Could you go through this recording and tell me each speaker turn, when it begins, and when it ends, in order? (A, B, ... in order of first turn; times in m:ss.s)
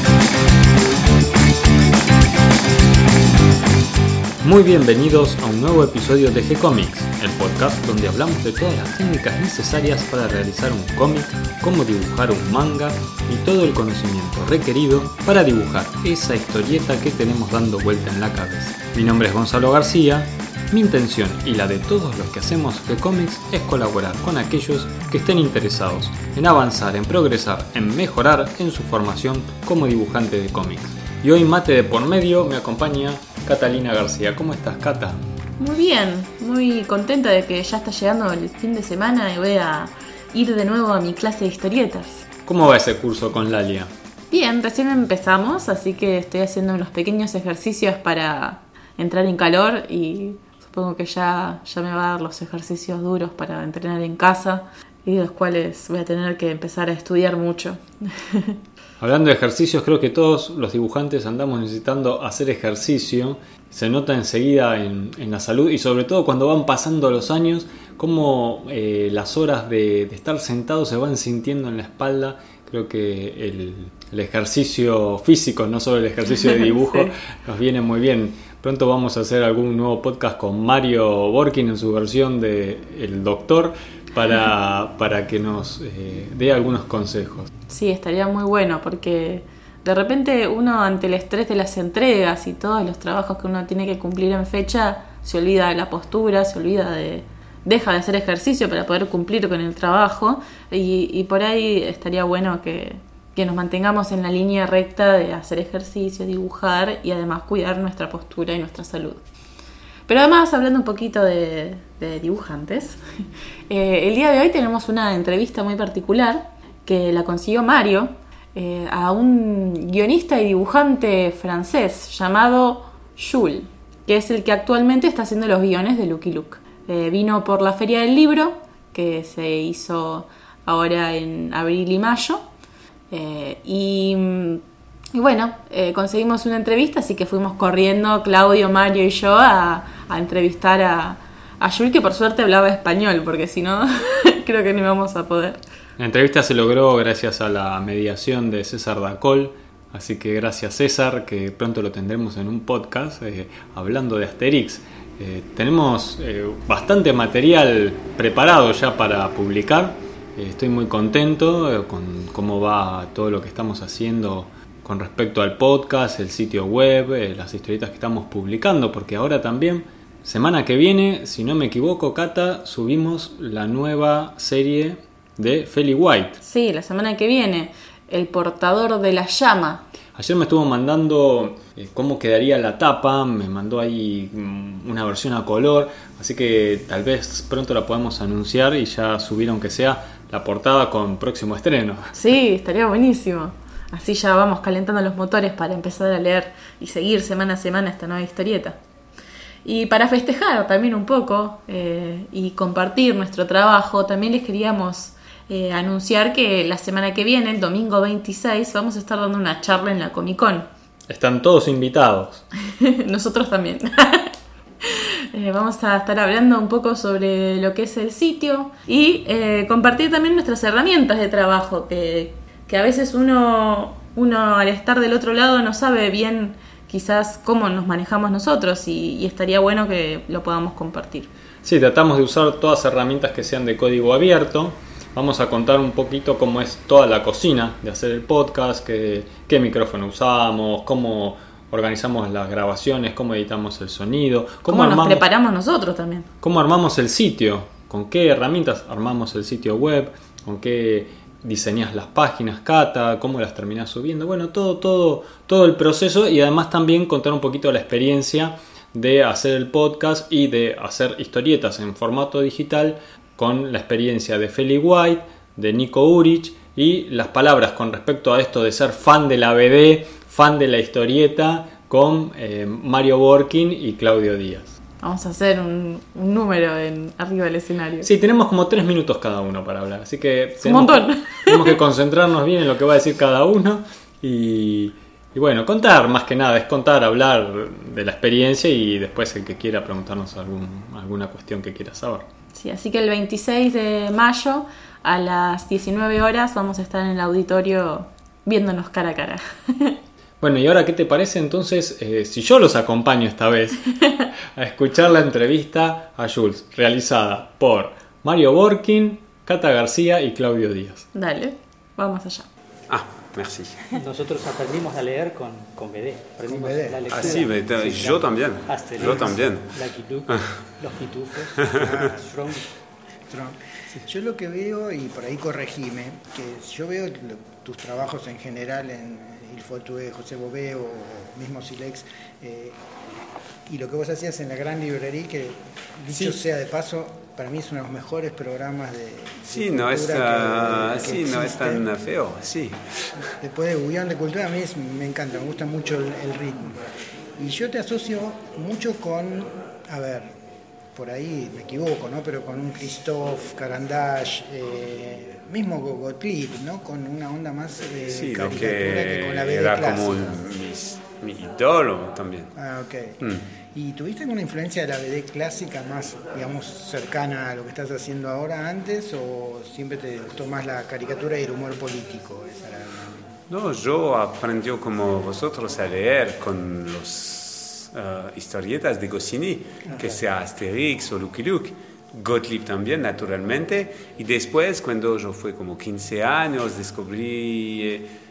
0:04.4-0:35.2 A
0:35.6-0:42.3 B
0:42.5-0:43.9 A
0:44.3-0:58.6 B
0:59.0-1:27.5 A
1:16.8-1:17.1 B
1:27.7-1:49.2 B
1:50.1-1:53.0 B
1:53.7-2:12.4 B
2:13.1-2:14.6 B
2:15.1-2:25.6 B
2:26.0-2:56.4 A
2:56.4-2:59.8 B
3:00.2-3:12.2 A
3:12.1-3:18.8 B
3:19.6-3:30.7 B
3:31.1-3:32.4 A
3:32.7-3:51.3 B
3:51.6-4:05.3 A
4:04.7-4:06.3 B
4:06.4-4:34.7 A
4:35.0-4:38.1 B
4:38.0-4:52.3 A
4:40.6-4:41.8 B
4:52.5-5:00.0 B
5:00.4-5:11.1 A
5:11.1-5:12.5 B
5:12.9-5:13.8 C
5:13.9-5:22.6 D
5:16.5-5:17.4 E
5:17.1-5:20.5 C
5:21.6-5:21.9 C
5:21.8-5:22.2 E
5:23.3-5:32.8 E
5:33.7-5:41.9 E
5:36.1-5:36.4 D
5:39.5-5:43.1 C
5:43.4-5:46.8 E
5:47.4-5:50.4 E
5:50.9-6:00.4 E
5:58.1-6:02.5 C
6:02.6-6:03.2 E
6:03.7-6:13.4 E
6:13.5-6:28.1 C